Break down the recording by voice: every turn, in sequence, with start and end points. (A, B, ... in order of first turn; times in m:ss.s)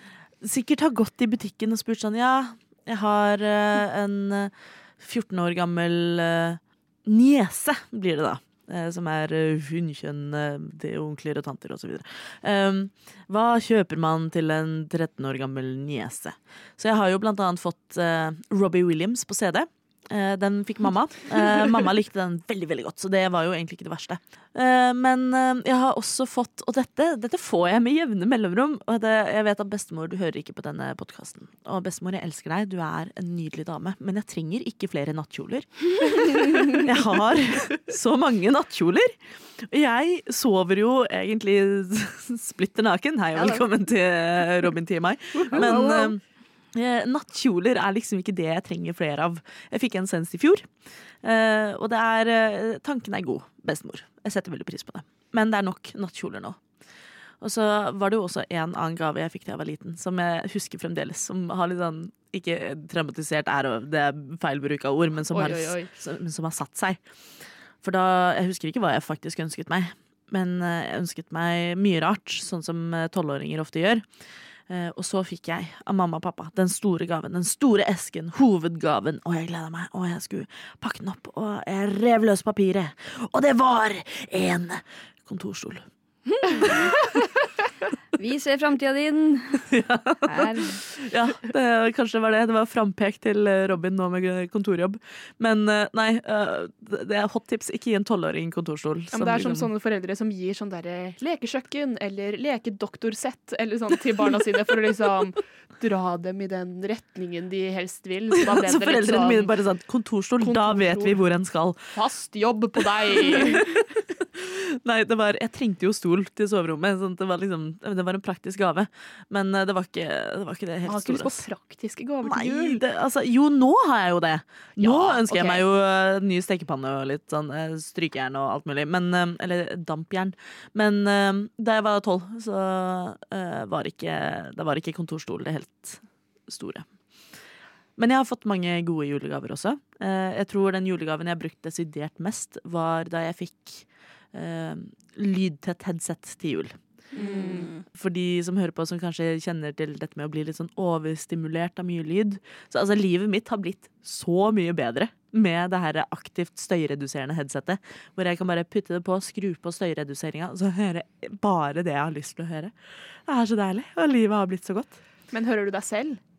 0:00.4-0:46.2 A
0:45.4-0:45.9 B
0:45.6-0:46.1 C
0:46.7-0:50.7 A
0:51.2-0:56.6 A
0:57.4-1:07.0 A
1:05.3-1:05.9 B
1:07.8-1:14.0 A
1:14.7-1:25.8 A
1:26.3-1:27.3 C
1:28.1-1:29.7 C
1:29.7-1:39.7 A
1:30.2-1:30.8 C
1:39.1-1:49.5 B
1:48.4-1:51.8 A
1:50.4-1:51.2 B
1:51.9-1:53.7 B
1:53.1-2:01.4 A
2:00.8-2:02.8 B
2:02.2-2:16.9 A
2:04.8-2:05.6 B
2:18.0-2:26.8 A
2:27.1-2:27.7 B
2:27.2-2:27.7 C
2:27.9-2:42.7 A
2:43.2-2:45.0 A
2:45.3-2:46.2 B